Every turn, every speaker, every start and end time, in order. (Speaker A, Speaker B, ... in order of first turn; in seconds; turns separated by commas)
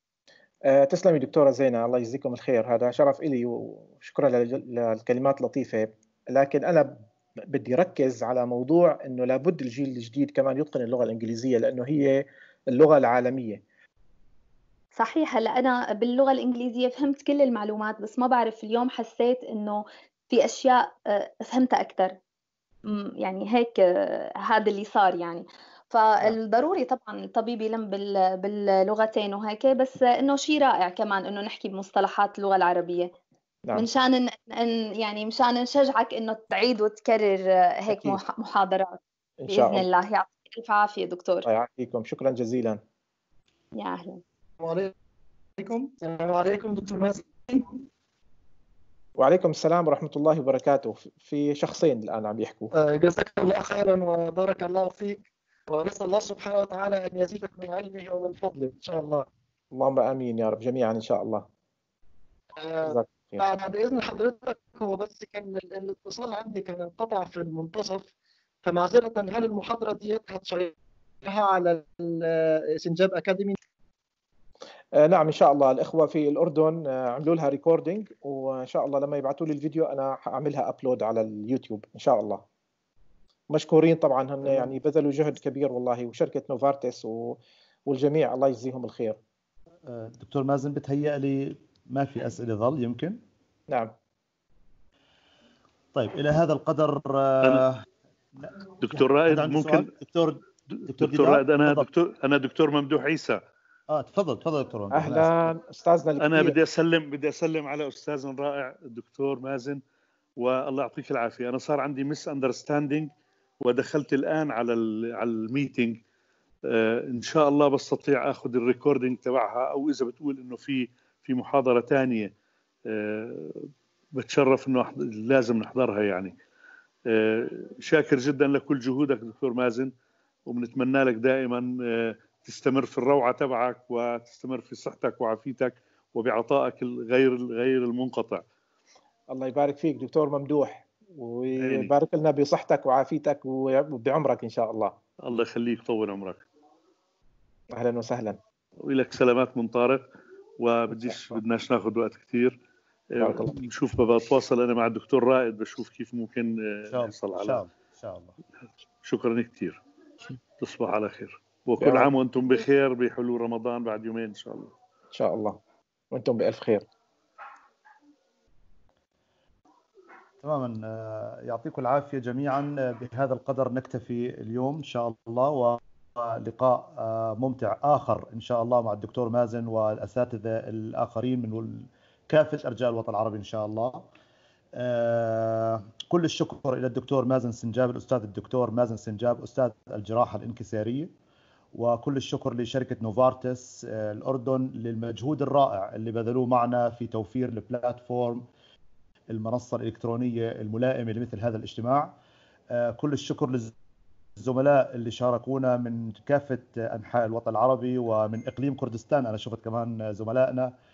Speaker A: 0.7-13.6, Speaker B: 14.9-22.2, Speaker B: 22.9-33.1, Speaker B: 33.7-41.5, Speaker A: 37.9-38.2, Speaker A: 39.4-39.9, Speaker A: 41.5-42.8, Speaker B: 43.8-44.2, Speaker C: 44.6-44.9, Speaker C: 45.6-47.8, Speaker A: 49.2-52.7, Speaker C: 52.8-59.3, Speaker A: 59.7-61.5, Speaker C: 62.6-68.1, Speaker A: 62.9-63.4, Speaker C: 68.7-70.7, Speaker C: 71.2-73.5, Speaker A: 75.0-82.4, Speaker A: 83.5-89.2, Speaker D: 89.8-93.2, Speaker D: 95.9-97.8, Speaker D: 98.4-101.9, Speaker E: 98.8-99.9, Speaker E: 100.9-103.4, Speaker D: 103.9-105.5, Speaker A: 104.9-106.6, Speaker E: 106.2-109.8, Speaker E: 110.4-116.0, Speaker E: 116.7-122.3, Speaker E: 122.9-126.3, Speaker E: 127.1-129.9, Speaker E: 130.5-138.4, Speaker A: 139.3-144.9, Speaker E: 141.6-141.9, Speaker E: 145.2-146.5, Speaker A: 147.7-148.4, Speaker E: 148.8-150.0, Speaker E: 150.6-152.6, Speaker A: 151.1-151.4, Speaker E: 153.1-157.6, Speaker A: 153.2-153.5, Speaker D: 156.9-158.4, Speaker E: 159.0-159.8, Speaker E: 160.6-164.7, Speaker A: 161.8-162.1, Speaker A: 165.1-165.6, Speaker A: 166.1-166.8, Speaker D: 170.4-184.1, Speaker D: 184.7-191.1, Speaker D: 191.7-198.5, Speaker D: 199.3-202.2, Speaker D: 202.7-203.7, Speaker D: 204.4-210.7